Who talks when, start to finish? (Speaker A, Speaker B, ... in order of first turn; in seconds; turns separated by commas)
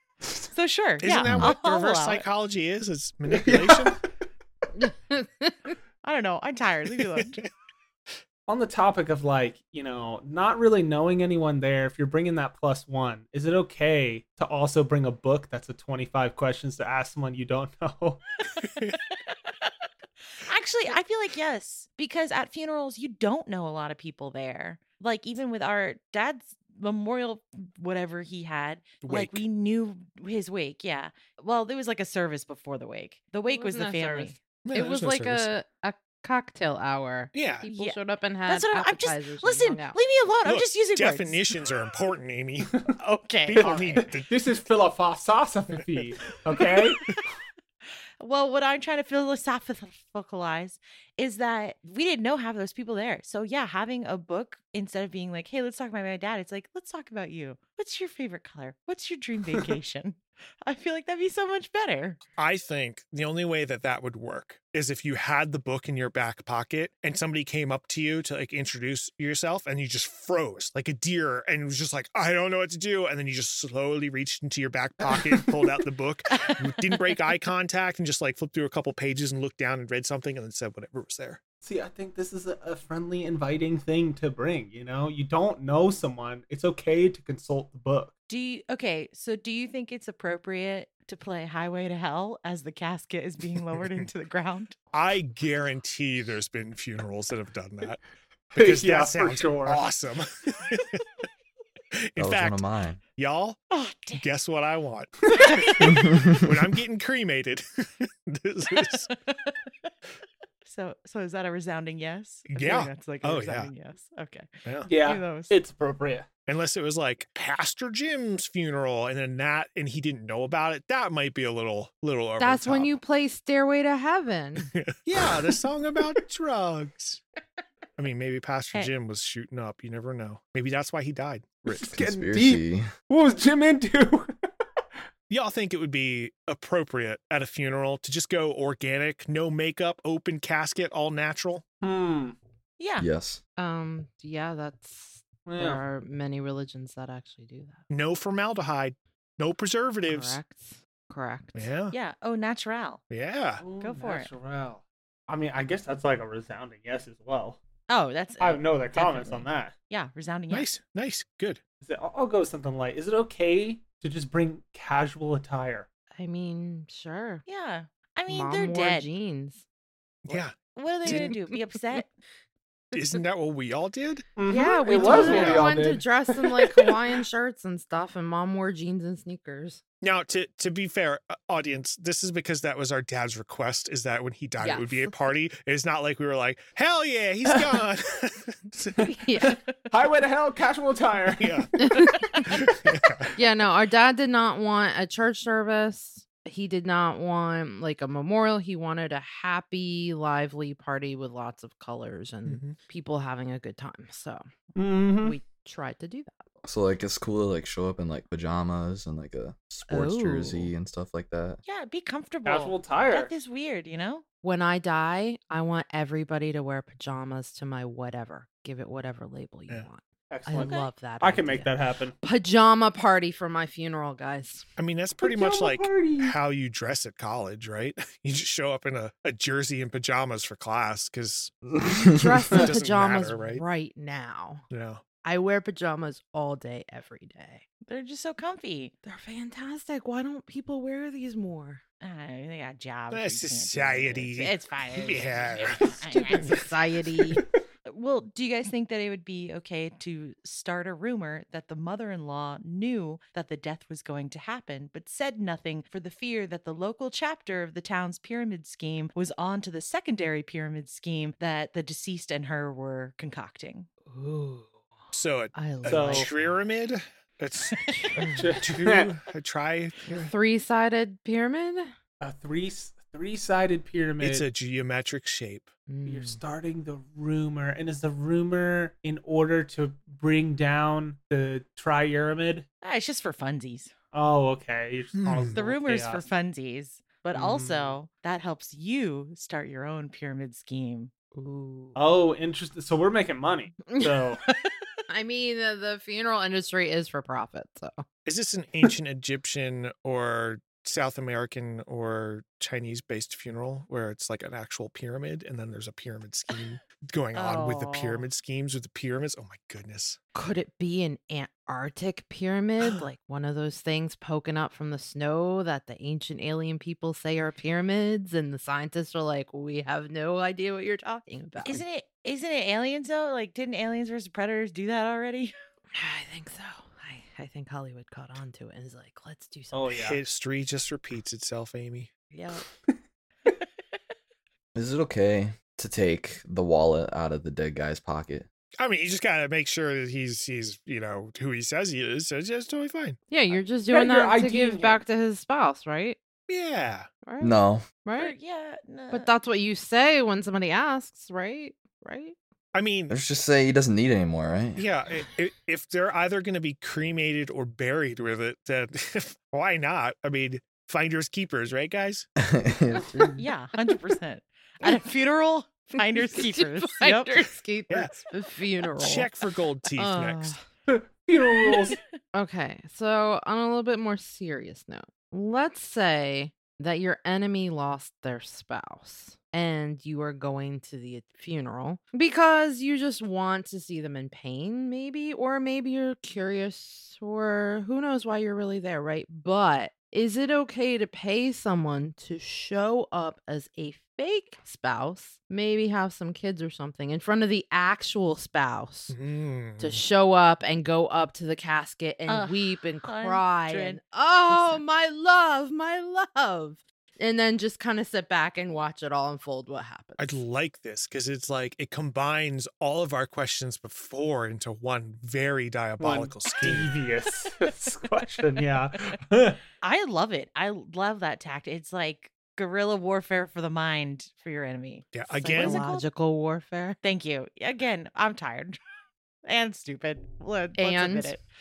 Speaker A: 0.5-2.3, Speaker B: 1.0-4.0, Speaker C: 1.2-1.5, Speaker D: 3.3-4.0, Speaker E: 4.8-5.8, Speaker A: 6.0-7.4, Speaker B: 7.1-7.5, Speaker D: 8.5-18.2, Speaker B: 18.6-18.9, Speaker A: 20.4-34.4, Speaker B: 29.0-29.4, Speaker E: 33.5-40.0, Speaker B: 34.6-35.5, Speaker B: 37.3-37.7, Speaker A: 37.7-41.5, Speaker B: 40.5-42.9, Speaker A: 43.0-44.0, Speaker B: 43.5-44.3, Speaker D: 43.6-47.2, Speaker A: 48.2-62.2, Speaker B: 62.4-81.4, Speaker D: 81.6-88.1, Speaker A: 88.3-94.8, Speaker B: 94.9-98.0, Speaker B: 98.5-101.0, Speaker D: 98.5-99.8, Speaker B: 102.0-102.6, Speaker C: 102.2-103.0, Speaker B: 103.2-103.6, Speaker A: 103.7-104.3, Speaker B: 104.1-109.1, Speaker D: 105.3-105.6, Speaker A: 105.4-106.0, Speaker A: 109.3-109.7, Speaker A: 110.7-115.5, Speaker B: 112.5-113.7, Speaker B: 114.7-114.9, Speaker D: 114.9-116.3, Speaker B: 116.5-122.9, Speaker E: 122.4-124.7, Speaker B: 124.7-127.2, Speaker B: 128.0-131.9, Speaker D: 131.7-134.3, Speaker C: 131.9-132.9, Speaker B: 135.3-141.6, Speaker D: 141.8-142.4, Speaker A: 142.8-143.1, Speaker C: 143.0-143.4, Speaker E: 143.6-147.8, Speaker D: 145.5-145.8, Speaker B: 147.9-150.4, Speaker E: 150.1-151.7, Speaker B: 151.6-151.9, Speaker A: 151.9-153.0, Speaker B: 153.1-153.6, Speaker D: 153.6-157.6, Speaker A: 153.8-154.3, Speaker A: 157.9-160.7, Speaker D: 158.4-159.7, Speaker B: 160.5-161.6, Speaker D: 161.8-165.9, Speaker E: 166.2-167.4, Speaker A: 167.5-169.1, Speaker E: 168.3-169.6, Speaker B: 170.2-171.3, Speaker A: 170.7-172.1, Speaker E: 171.1-171.4, Speaker B: 172.9-174.3, Speaker D: 174.4-176.9, Speaker E: 174.5-179.8, Speaker B: 174.9-175.8, Speaker B: 180.0-189.1, Speaker E: 184.6-185.1, Speaker D: 189.0-191.7, Speaker E: 189.2-189.6, Speaker B: 191.4-191.7, Speaker E: 191.8-192.5, Speaker B: 192.5-193.3, Speaker E: 193.4-204.5, Speaker B: 202.4-202.8, Speaker D: 204.8-205.4, Speaker E: 205.2-206.4, Speaker C: 206.6-211.6, Speaker E: 209.9-210.7, Speaker A: 211.7-214.2, Speaker D: 212.5-213.3, Speaker E: 214.4-224.7, Speaker D: 220.3-222.2, Speaker A: 220.5-220.9, Speaker B: 224.8-231.6, Speaker D: 225.2-226.3, Speaker C: 231.8-232.3, Speaker E: 231.9-234.7, Speaker B: 232.5-233.6, Speaker B: 234.7-235.0, Speaker E: 235.2-237.6, Speaker A: 237.8-238.9, Speaker E: 239.0-241.8, Speaker A: 242.0-246.6, Speaker B: 243.1-246.7, Speaker E: 246.1-247.4, Speaker A: 247.9-263.9, Speaker E: 264.1-264.8, Speaker B: 265.1-270.3, Speaker E: 265.5-266.5, Speaker D: 265.9-266.3, Speaker E: 268.1-268.6, Speaker D: 268.2-269.1, Speaker E: 270.1-271.9, Speaker D: 272.2-274.4, Speaker B: 274.2-275.7, Speaker E: 275.9-276.4, Speaker D: 276.1-282.6, Speaker A: 282.8-283.9, Speaker D: 284.1-286.2, Speaker B: 285.1-285.6, Speaker A: 285.5-291.1, Speaker D: 287.4-287.9, Speaker E: 291.4-292.0, Speaker D: 291.9-294.4, Speaker E: 293.9-294.2, Speaker E: 295.1-298.1, Speaker B: 298.2-310.2, Speaker A: 307.3-308.2, Speaker E: 310.3-321.8, Speaker A: 321.6-325.5, Speaker E: 325.9-330.0, Speaker D: 329.7-330.2, Speaker B: 330.0-332.1, Speaker E: 332.3-332.7, Speaker C: 334.8-338.5, Speaker B: 338.8-343.2, Speaker E: 343.3-346.2, Speaker D: 343.9-345.0, Speaker B: 346.5-347.1, Speaker E: 347.2-348.3, Speaker C: 347.4-347.9, Speaker A: 348.2-349.3, Speaker E: 349.1-352.4, Speaker B: 352.7-353.2, Speaker C: 353.1-354.8, Speaker B: 354.8-362.3, Speaker C: 362.4-363.4, Speaker A: 363.4-367.5, Speaker E: 366.1-369.3, Speaker B: 367.9-368.2, Speaker B: 368.9-370.6, Speaker E: 370.0-370.6, Speaker D: 370.9-372.0, Speaker E: 372.3-399.2, Speaker B: 399.1-400.0, Speaker E: 399.8-410.4, Speaker A: 402.3-404.8, Speaker B: 410.2-416.9, Speaker D: 416.0-419.6, Speaker A: 419.8-426.1, Speaker B: 425.1-425.9, Speaker E: 425.3-427.0, Speaker A: 427.0-428.8, Speaker A: 429.4-431.4, Speaker E: 430.8-431.3